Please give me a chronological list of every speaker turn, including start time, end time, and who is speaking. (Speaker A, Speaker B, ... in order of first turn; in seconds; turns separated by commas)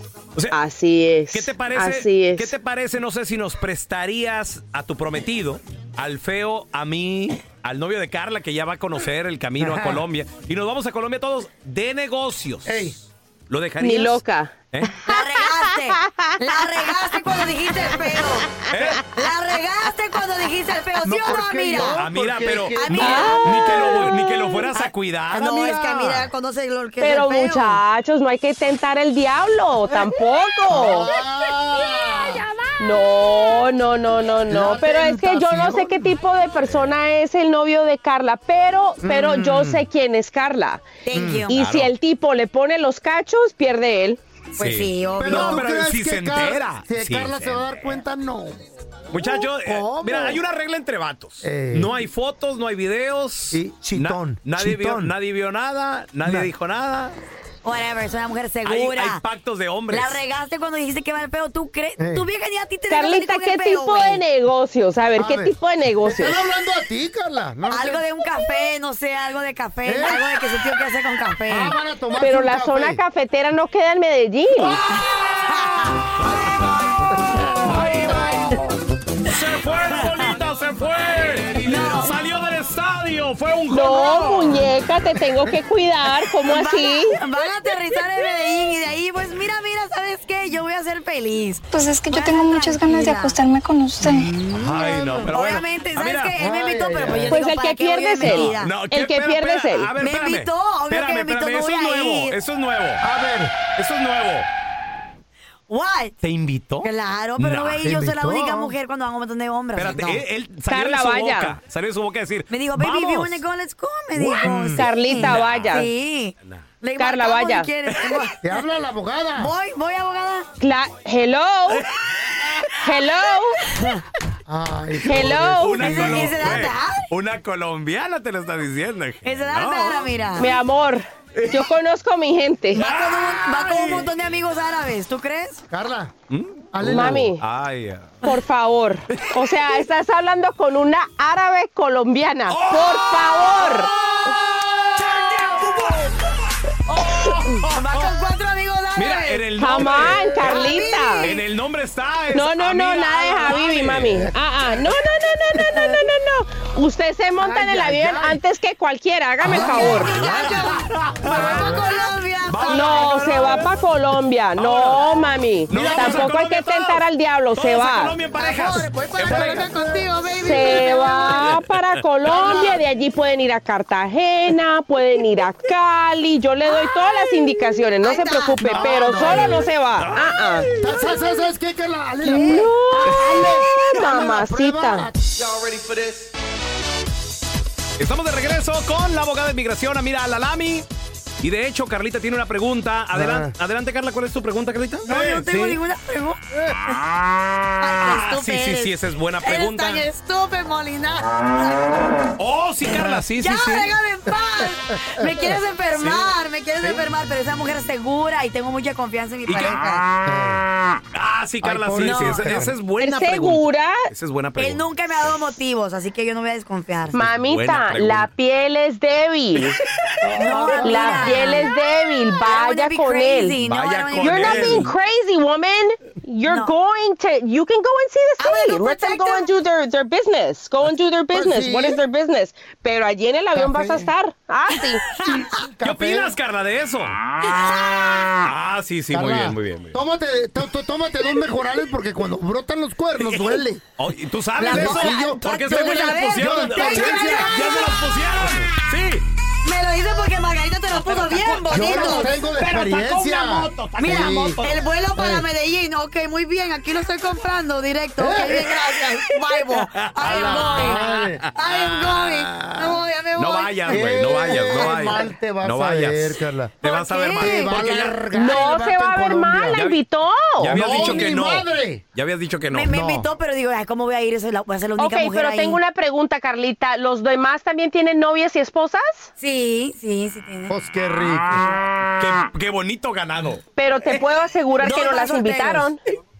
Speaker A: 0.5-2.5, Speaker B: 1.3-12.9, Speaker C: 9.6-10.0, Speaker C: 12.6-13.0, Speaker B: 13.5-14.9, Speaker A: 13.8-14.5, Speaker D: 15.0-18.5, Speaker A: 15.7-16.3, Speaker B: 18.7-19.0, Speaker D: 19.1-22.0, Speaker C: 21.0-24.1, Speaker B: 21.8-26.2, Speaker D: 22.8-24.0, Speaker A: 23.0-23.8, Speaker D: 24.7-27.8, Speaker A: 27.0-31.1, Speaker C: 30.7-32.5, Speaker A: 32.8-40.9, Speaker C: 34.5-36.1, Speaker C: 39.0-39.9, Speaker D: 41.0-41.7, Speaker C: 41.1-41.5, Speaker A: 41.5-44.2, Speaker B: 41.5-41.9, Speaker D: 44.6-45.6, Speaker B: 44.6-47.9, Speaker C: 45.2-48.6, Speaker B: 49.1-57.1, Speaker C: 49.2-50.4, Speaker C: 51.4-51.9, Speaker C: 53.5-55.1, Speaker C: 56.2-56.5, Speaker D: 57.6-59.2, Speaker B: 58.6-60.2, Speaker D: 59.9-64.2, Speaker C: 62.0-62.2, Speaker A: 62.9-66.4, Speaker C: 65.2-68.0, Speaker D: 67.7-71.7, Speaker C: 69.8-70.2, Speaker C: 71.5-73.0, Speaker A: 72.2-74.8, Speaker D: 75.6-75.9, Speaker B: 76.2-76.5, Speaker C: 77.3-78.7, Speaker B: 77.7-78.5, Speaker B: 79.2-84.7, Speaker D: 81.6-82.1, Speaker A: 83.7-87.2, Speaker D: 86.4-93.4, Speaker E: 91.7-94.3, Speaker C: 94.0-95.3, Speaker B: 94.5-96.4, Speaker D: 94.8-98.8, Speaker C: 96.4-97.4, Speaker A: 97.3-99.9, Speaker B: 98.2-103.0, Speaker D: 100.0-102.3, Speaker C: 103.0-103.5, Speaker B: 103.7-104.5, Speaker D: 105.7-106.2, Speaker B: 106.2-107.9, Speaker D: 106.8-110.2, Speaker C: 107.8-108.7, Speaker B: 109.7-113.4, Speaker A: 110.7-111.5, Speaker D: 112.5-118.5, Speaker C: 114.1-114.9, Speaker A: 114.8-115.9, Speaker B: 115.2-115.8, Speaker A: 117.0-117.7, Speaker C: 118.4-119.5, Speaker D: 119.4-120.5, Speaker A: 120.6-121.8, Speaker B: 122.4-122.7, Speaker A: 122.8-123.6, Speaker C: 124.5-126.3, Speaker A: 125.0-126.1, Speaker B: 125.3-130.1, Speaker D: 125.8-127.1, Speaker D: 129.2-130.6, Speaker A: 130.4-132.8, Speaker B: 131.3-131.6, Speaker D: 132.7-135.6, Speaker B: 132.8-134.1, Speaker C: 135.7-136.1, Speaker B: 136.3-138.2, Speaker C: 136.7-137.3, Speaker A: 136.8-137.4, Speaker A: 138.2-143.9, Speaker B: 142.5-146.1, Speaker B: 147.0-148.1, Speaker D: 147.6-151.3, Speaker B: 148.9-154.3, Speaker A: 149.6-151.3, Speaker A: 152.3-160.2, Speaker C: 157.4-158.4, Speaker C: 159.4-160.2, Speaker D: 159.6-163.5, Speaker B: 159.7-161.7, Speaker C: 161.3-161.9, Speaker B: 162.4-163.7, Speaker A: 162.7-168.2, Speaker B: 164.6-165.1, Speaker B: 165.7-167.0, Speaker C: 165.7-166.3, Speaker B: 167.5-169.7, Speaker D: 168.3-171.4, Speaker C: 169.2-170.0, Speaker A: 170.3-180.7, Speaker B: 172.2-172.6, Speaker D: 178.0-179.6, Speaker C: 178.6-179.7, Speaker B: 179.2-180.9, Speaker C: 180.8-185.2, Speaker A: 182.2-185.1, Speaker B: 188.0-190.8, Speaker B: 191.4-195.8, Speaker C: 193.1-193.5, Speaker D: 195.1-196.4, Speaker D: 197.8-201.9, Speaker B: 198.0-200.1, Speaker B: 202.4-203.9, Speaker D: 203.4-210.1, Speaker C: 205.0-205.3, Speaker B: 206.0-206.3, Speaker B: 209.5-209.8, Speaker C: 210.2-210.6, Speaker B: 211.1-215.5, Speaker C: 211.6-212.7, Speaker D: 212.0-212.5, Speaker A: 213.0-214.1, Speaker D: 214.6-217.2, Speaker A: 217.1-219.8, Speaker B: 217.2-218.3, Speaker C: 220.2-221.5, Speaker D: 220.3-224.9, Speaker A: 220.8-223.6, Speaker B: 223.6-224.9, Speaker A: 224.2-235.1, Speaker D: 226.4-226.7, Speaker D: 228.4-229.5, Speaker C: 231.3-232.0, Speaker C: 233.5-234.1, Speaker C: 235.2-236.3, Speaker B: 235.8-237.2, Speaker D: 237.5-238.4, Speaker B: 238.4-240.0, Speaker C: 239.1-243.8, Speaker B: 243.2-249.2, Speaker D: 244.6-247.9, Speaker C: 244.6-247.7, Speaker D: 249.6-252.3, Speaker B: 250.9-254.8, Speaker C: 251.7-254.6, Speaker D: 254.0-264.0, Speaker C: 255.2-255.5, Speaker C: 258.2-259.4, Speaker B: 259.8-268.2, Speaker C: 260.2-261.4, Speaker C: 263.9-266.8, Speaker D: 266.9-267.8, Speaker C: 267.3-269.8, Speaker A: 268.3-271.3, Speaker B: 269.7-270.0, Speaker B: 270.6-273.0, Speaker C: 270.7-272.0, Speaker D: 272.7-275.8, Speaker C: 272.9-273.3, Speaker A: 275.0-279.3, Speaker D: 279.4-280.7, Speaker C: 280.7-281.6, Speaker B: 282.2-283.6, Speaker A: 283.8-286.0, Speaker D: 284.8-285.9